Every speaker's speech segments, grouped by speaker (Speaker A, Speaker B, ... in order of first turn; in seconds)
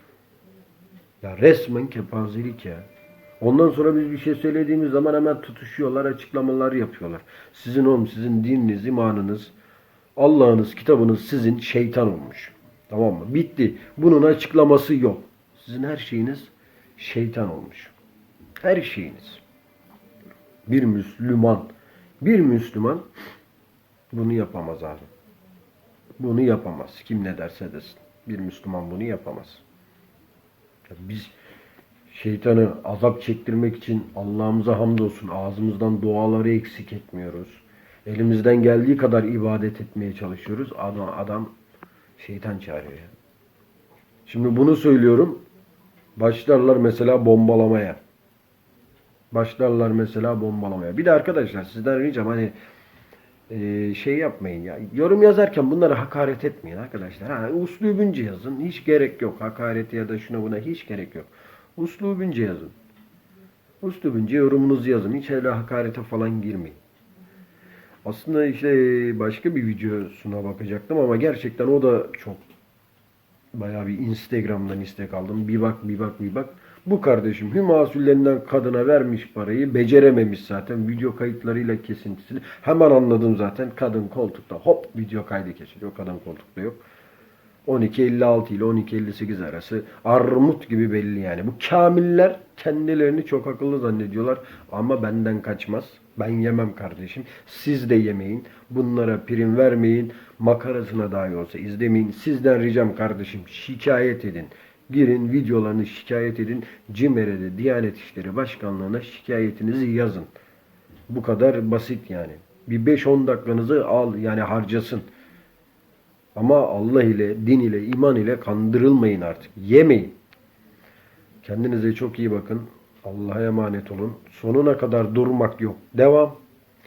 Speaker A: 1.2-2.9, 3.4-9.5, 10.2-17.9, 18.6-19.4, 20.7-23.1, 24.1-25.1, 26.2-29.6, 30.9-31.3, 32.1-41.5, 42.2-43.1, 44.3-45.4, 46.2-48.0, 49.3-52.5, 53.5-62.7, 63.8-66.8, 68.0-72.4, 73.5-86.8, 87.7-110.3, 111.1-115.1, 116.3-120.2, 121.4-126.4